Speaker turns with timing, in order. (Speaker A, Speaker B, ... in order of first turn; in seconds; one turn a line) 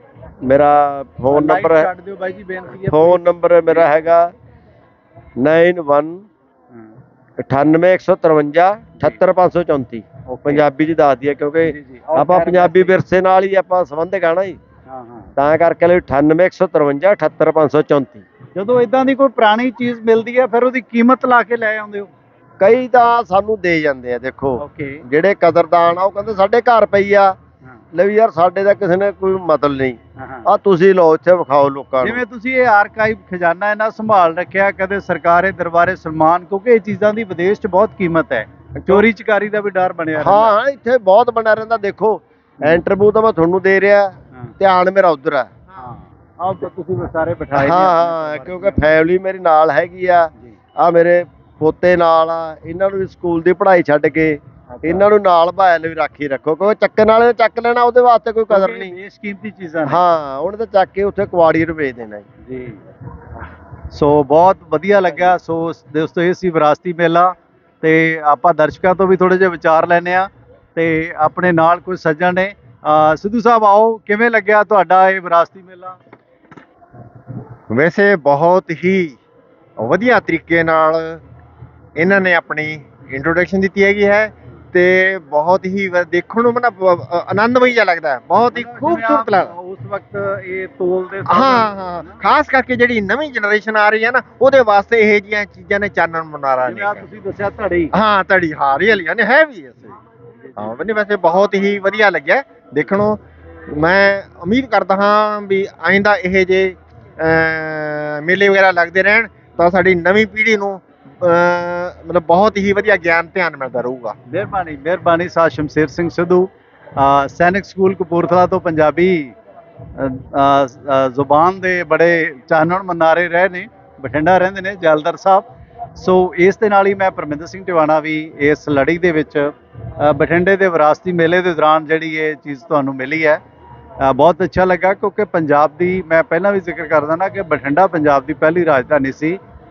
Speaker A: 0.4-1.9
Speaker B: 1.3-4.0
Speaker A: 2.8-4.3
Speaker A: 5.4-6.2
Speaker A: 7.4-14.6
Speaker B: 10.3-10.6
Speaker B: 11.6-12.9
Speaker B: 14.9-15.3
Speaker A: 15.4-18.2
Speaker B: 18.5-22.1
Speaker A: 22.6-27.3
Speaker B: 24.6-25.0
Speaker A: 27.9-32.2
Speaker B: 30.2-30.5
Speaker B: 32.0-40.5
Speaker A: 38.8-39.1
Speaker A: 40.2-45.5
Speaker B: 45.8-48.9
Speaker A: 47.5-58.9
Speaker B: 54.7-55.1
Speaker B: 58.5-60.0
Speaker A: 59.8-62.2
Speaker B: 62.4-62.8
Speaker B: 63.9-76.0
Speaker C: 77.7-79.2
Speaker C: 79.8-81.2
Speaker C: 82.0-89.5
Speaker B: 88.5-92.2
Speaker C: 91.3-97.0
Speaker B: 96.6-97.9
Speaker C: 97.9-100.0
Speaker B: 100.4-100.7
Speaker C: 100.6-114.2
Speaker B: 114.3-119.3
Speaker B: 120.0-133.4
Speaker B: 134.0-139.4